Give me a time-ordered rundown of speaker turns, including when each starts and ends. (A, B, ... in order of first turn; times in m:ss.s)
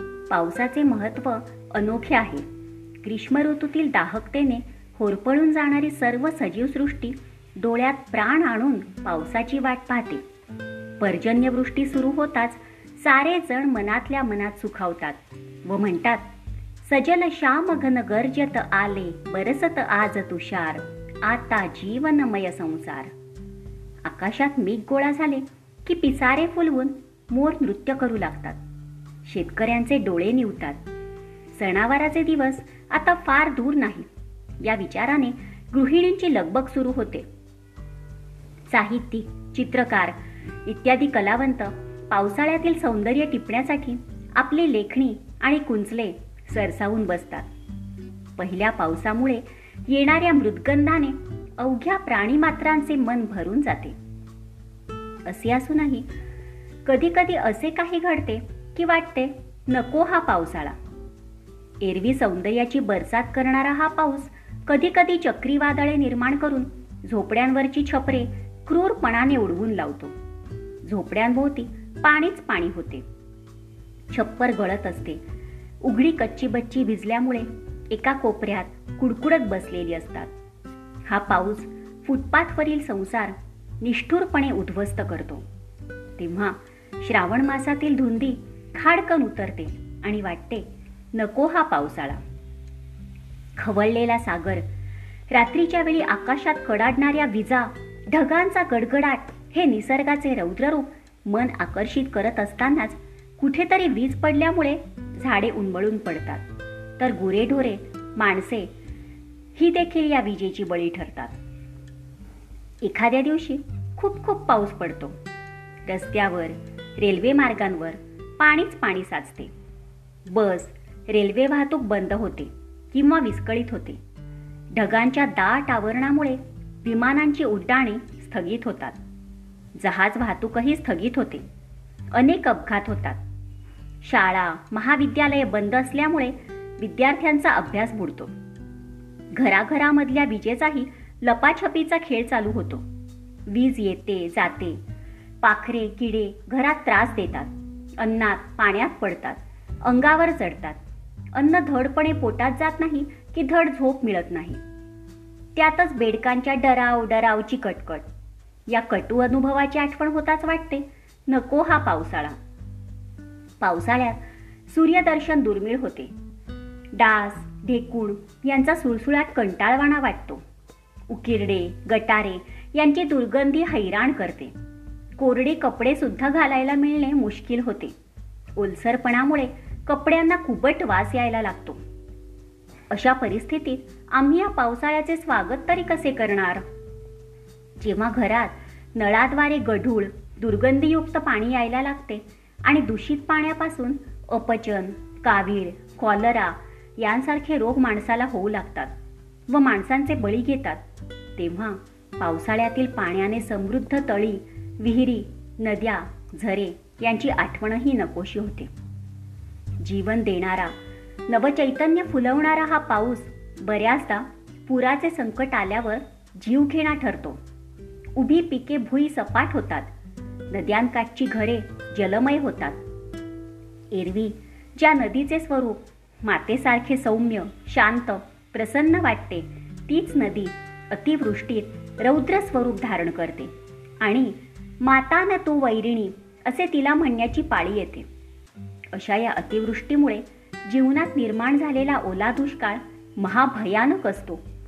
0:00.3-0:02.4 A
0:03.0-0:10.2 A
0:11.0-0:16.3 A
0:16.8-0:23.1 A
0:24.0-0:28.6 A
0:29.2-0:30.8 A
0:31.5-0:34.1 A
0:34.6-0:37.3 A
0:38.7-0:47.5 A
0:48.4-0:54.0 A
0:55.3-0:56.1 A
0:56.8-1:00.8 A
1:01.8-1:10.1 A
1:10.8-1:13.0 A
1:14.1-1:15.2 A
1:15.8-1:20.3 A
1:21.0-1:25.4 A
1:26.2-1:32.2 A
1:33.6-1:34.6 A
1:35.3-1:46.4 A
1:47.0-1:48.7 A
1:49.6-1:51.4 A
1:52.8-1:55.2 A
1:55.8-1:59.5 A
2:00.3-2:04.0 A
2:04.7-2:09.0 A
2:09.8-2:11.4 A
2:12.1-2:13.2 A
2:14.0-2:18.3 A
2:19.3-2:22.8 A
2:23.5-2:24.8 A
2:25.4-2:30.8 A
2:31.3-2:34.6 A
2:35.6-2:38.1 A
2:38.7-2:42.4 A
2:43.6-2:46.1 A
2:46.9-2:50.4 A
2:51.1-2:54.5 A
2:55.2-2:57.9 A
2:58.6-3:01.8 A
3:02.9-3:06.6 A
3:07.8-3:18.9 A
3:19.5-3:20.8 A
3:21.4-3:28.7 A
3:29.8-3:30.8 A
3:31.3-3:37.4 A
3:38.2-3:39.9 A
3:40.5-3:42.8 A
3:43.9-3:58.1 A
3:58.9-4:04.4 A